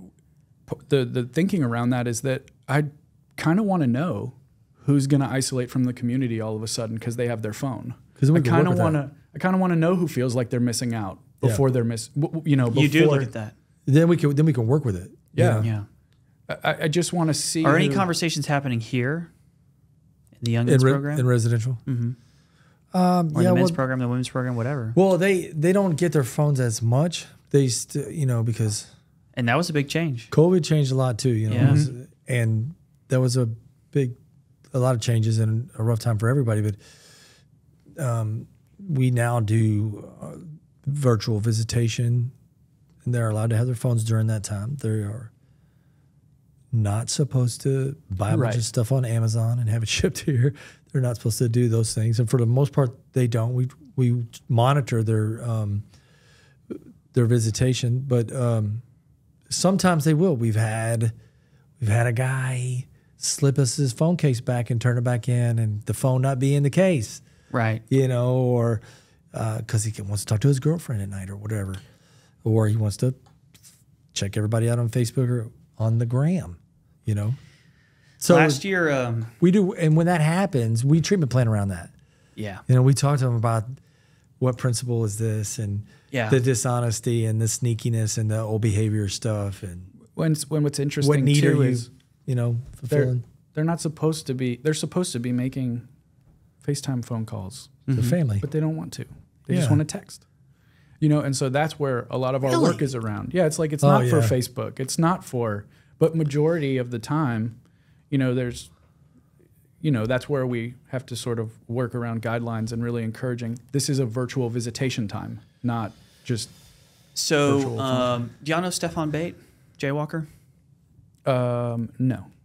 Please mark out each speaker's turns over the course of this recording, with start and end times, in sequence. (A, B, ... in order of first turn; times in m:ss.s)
0:00.7-0:13.3 A
0:08.2-0:09.0 B
0:12.7-0:13.5 C
0:13.9-0:15.7 B
0:15.3-0:15.7 A
0:15.6-0:15.8 C
0:16.5-0:18.1 A
0:17.6-0:19.3 C
0:20.4-0:21.3 C
0:20.6-0:21.8 B
0:21.8-0:22.2 C
0:22.9-0:23.8 B
0:23.3-0:25.0 C
0:24.9-0:28.9 B
0:29.4-0:30.3 C
0:30.3-0:34.2 B
0:31.5-0:31.8 C
0:31.6-0:31.9 A
0:34.7-0:36.8 B
0:38.0-0:42.3 B
0:43.0-0:45.3 B
0:46.7-0:55.8 B
0:48.3-0:48.6 A
0:56.7-0:58.8 B
0:59.5-1:01.1 B
1:01.8-1:07.2 B
1:07.5-1:07.8 C
1:07.9-1:11.8 B
1:12.4-1:13.2 B
1:14.1-1:17.4 B
1:18.2-1:18.6 B
1:18.3-1:19.3 C
1:19.4-1:21.9 B
1:22.4-1:22.6 C
1:22.7-1:23.8 B
1:24.4-1:29.9 B
1:26.1-1:26.4 C
1:30.2-1:31.9 A
1:31.0-1:33.2 B
1:32.9-1:35.8 A
1:36.6-1:37.9 A
1:37.9-1:38.2 C
1:37.9-1:38.4 B
1:38.4-1:40.2 A
1:39.5-1:39.8 B
1:41.0-1:47.5 A
1:42.4-1:42.8 B
1:43.8-1:44.3 B
1:48.1-1:48.7 A
1:49.8-1:56.5 A
1:57.1-2:00.3 C
1:57.4-1:58.1 A
2:01.2-2:02.3 A